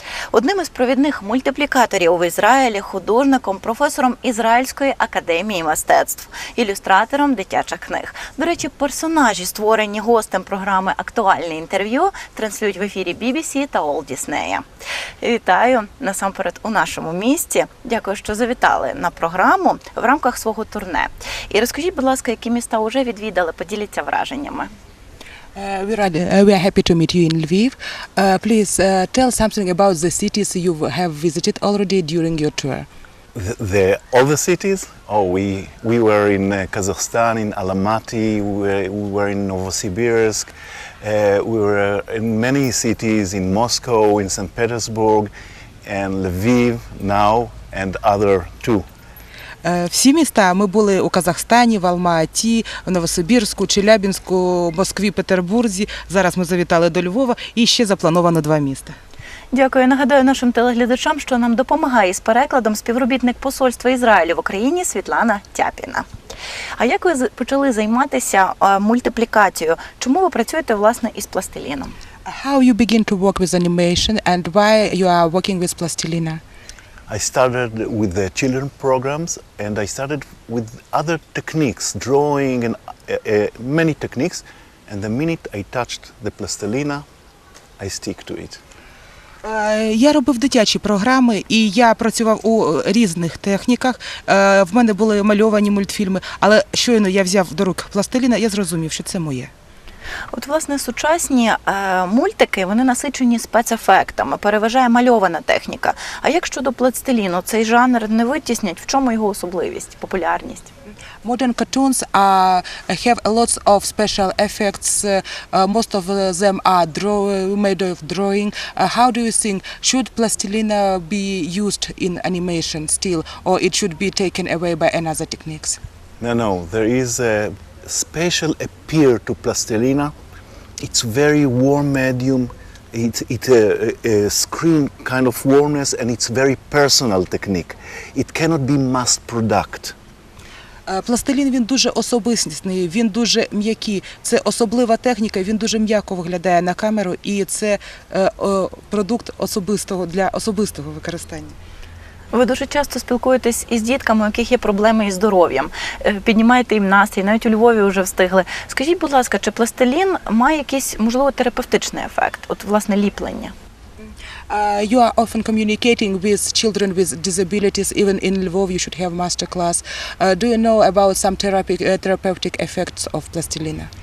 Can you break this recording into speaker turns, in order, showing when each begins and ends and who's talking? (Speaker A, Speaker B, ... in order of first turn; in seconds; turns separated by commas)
Speaker A: 0.3-14.6, Speaker A: 15.2-24.7, Speaker B: 25.6-32.9, Speaker C: 33.3-45.3, Speaker C: 45.8-48.8, Speaker B: 49.6-59.0, Speaker A: 59.5-66.0, Speaker A: 66.8-71.9, Speaker B: 72.2-76.4, Speaker C: 77.1-87.0, Speaker C: 87.8-88.6, Speaker B: 89.4-99.5, Speaker A: 100.3-110.7, Speaker B: 111.2-125.8, Speaker C: 126.2-130.1, Speaker C: 130.8-139.9, Speaker B: 140.9-151.5, Speaker A: 152.3-163.5, Speaker B: 164.0-173.9